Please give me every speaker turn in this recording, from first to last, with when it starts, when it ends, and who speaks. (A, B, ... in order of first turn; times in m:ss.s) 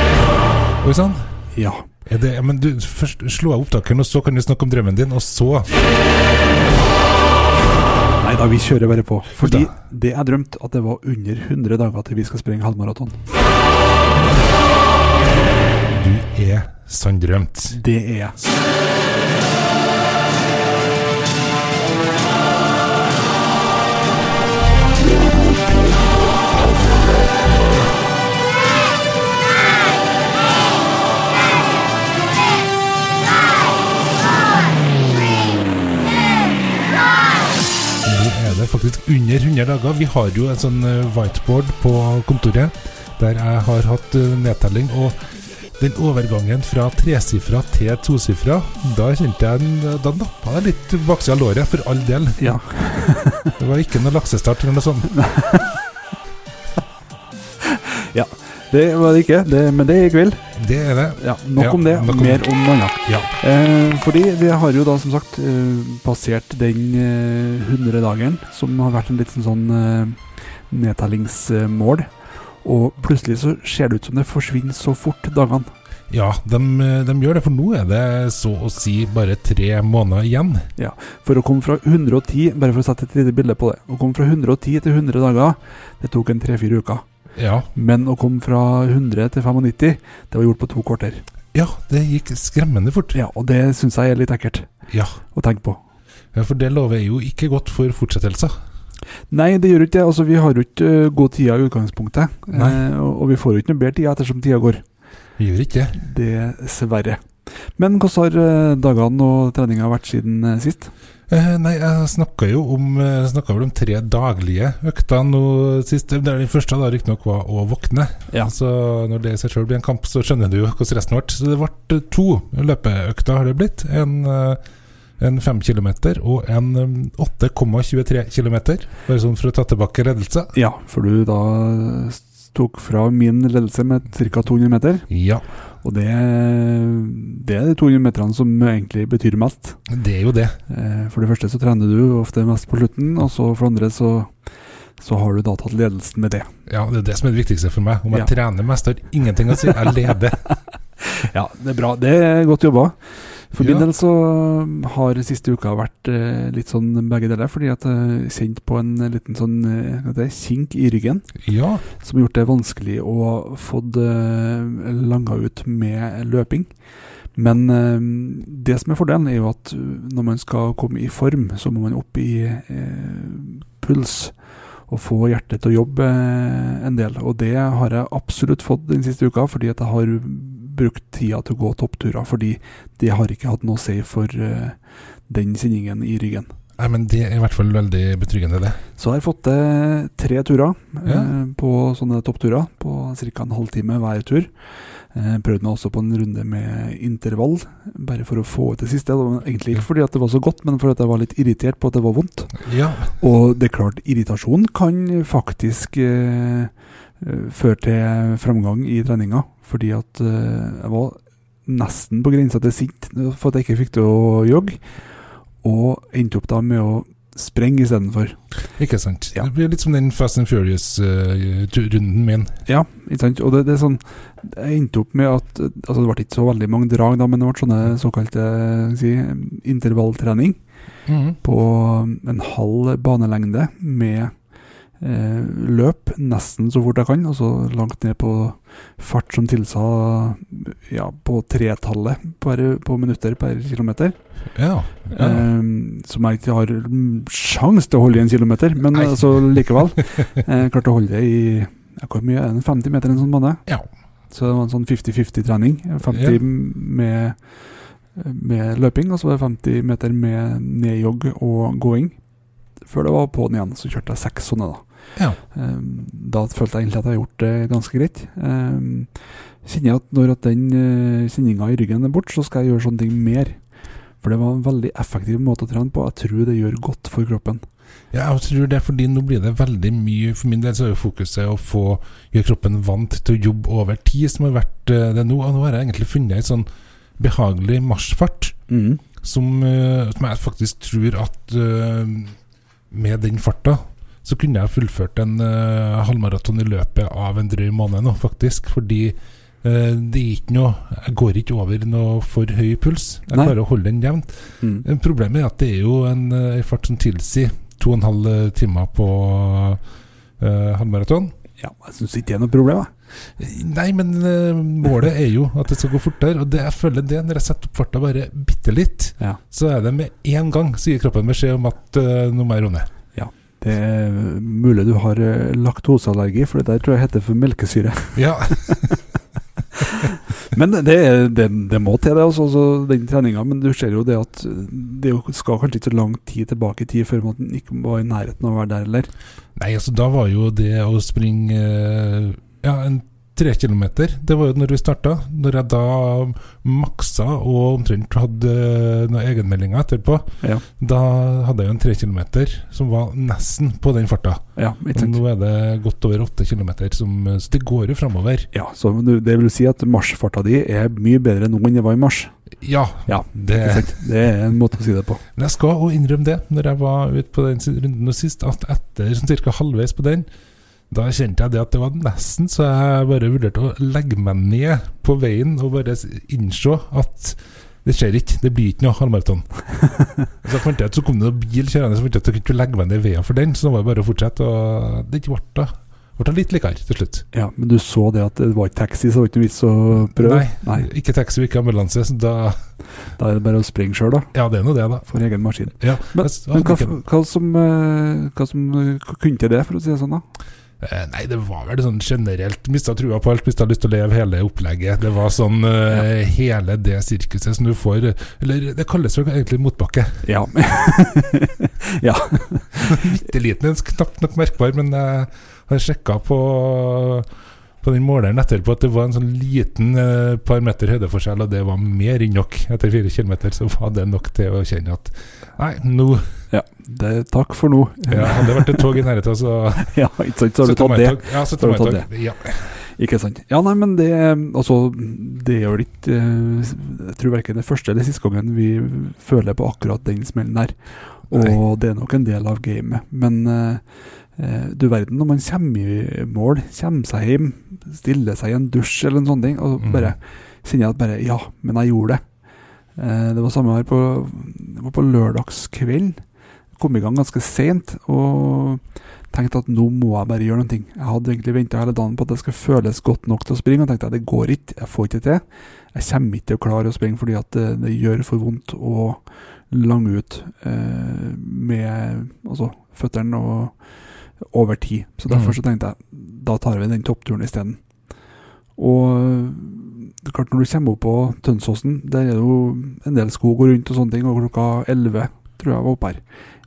0:00.8-0:01.2 A
0:01.5-0:01.8 B
0:02.1-0:05.8 A
0:08.2-0:13.2 B
0:09.4-0:09.7 A
0:15.9-0:17.8 A
0:17.7-0:18.5 B
0:38.0-0:45.2 A
0:45.8-0:52.5 A
0:52.4-0:53.5 B
0:53.6-0:55.1 A
0:55.1-0:55.8 B
0:57.6-1:00.4 B
1:00.6-1:02.4 A
1:01.2-1:12.1 B
1:03.0-1:03.3 A
1:12.6-1:15.7 B
1:16.1-1:20.7 A
1:20.8-1:27.0 B
1:27.4-1:27.7 A
1:27.7-1:31.2 B
1:31.5-1:33.2 A
1:33.1-1:34.7 B
1:34.9-1:35.2 A
1:35.3-1:35.8 B
1:36.3-1:38.5 A
1:39.3-1:44.8 B
1:42.5-1:42.8 A
1:45.4-1:46.0 A
1:46.0-1:47.2 B
1:47.8-1:50.9 B
1:51.3-2:04.6 A
2:05.2-2:10.5 A
2:10.5-2:15.1 B
2:15.1-2:15.4 A
2:15.8-2:19.8 B
2:19.9-2:20.6 A
2:20.7-2:24.3 B
2:25.0-2:26.5 B
2:26.7-2:30.4 A
2:31.0-2:33.0 B
2:33.5-2:41.3 B
2:33.6-2:33.8 A
2:41.4-2:41.8 A
2:42.0-2:46.7 B
2:47.4-2:54.3 B
2:54.9-3:04.8 B
3:05.3-3:06.5 B
3:06.8-3:08.8 A
3:09.0-3:14.5 B
3:11.0-3:11.3 A
3:15.1-3:22.6 B
3:22.6-3:23.1 A
3:23.1-3:34.8 B
3:35.6-3:38.4 B
3:38.8-3:42.5 A
3:42.6-3:50.6 B
3:51.1-3:51.4 A
3:51.4-3:54.3 B
3:55.0-4:04.1 B
4:04.5-4:05.5 A
4:05.1-4:13.6 B
4:08.9-4:09.8 A
4:14.3-4:17.4 B
4:16.1-4:16.4 A
4:18.2-4:22.2 B
4:22.8-4:24.8 B
4:25.5-4:29.1 B
4:29.6-4:33.6 B
4:34.2-4:37.6 B
4:38.1-4:46.6 A
4:47.2-4:48.6 A
4:48.7-4:49.0 B
4:49.2-4:52.4 A
4:52.9-5:04.3 A
5:04.8-5:09.8 A
5:10.4-5:11.3 A
5:11.6-5:12.9 B
5:13.4-5:22.9 A
5:23.1-5:28.2 B
5:28.1-5:29.0 A
5:29.8-5:39.1 B
5:39.6-5:50.2 A
5:50.8-5:54.4 A
5:54.6-5:55.2 B
5:54.9-5:58.5 A
5:58.5-6:02.3 B
6:02.6-6:04.1 A
6:03.1-6:05.2 B
6:05.4-6:10.2 A
6:10.9-6:19.4 A
6:20.4-6:27.2 A
6:27.3-6:30.9 B
6:30.2-6:32.6 A
6:33.2-6:34.3 B
6:34.3-6:35.1 A
6:35.1-6:40.2 B
6:35.8-6:37.0 A
6:40.8-6:50.2 A
6:50.2-6:53.0 B
6:52.8-6:57.3 A
6:57.8-7:06.2 A
7:06.5-7:09.0 B
7:08.1-7:09.9 A
7:09.8-7:12.1 B
7:10.6-7:12.7 A
7:13.0-7:20.7 B
7:21.3-7:23.8 B
7:24.4-7:32.2 B
7:29.8-7:30.1 A
7:33.0-7:36.2 B
7:36.8-7:45.4 B
7:45.9-7:53.7 B
7:54.5-7:57.8 B
7:55.3-7:55.6 A
7:58.8-8:06.2 B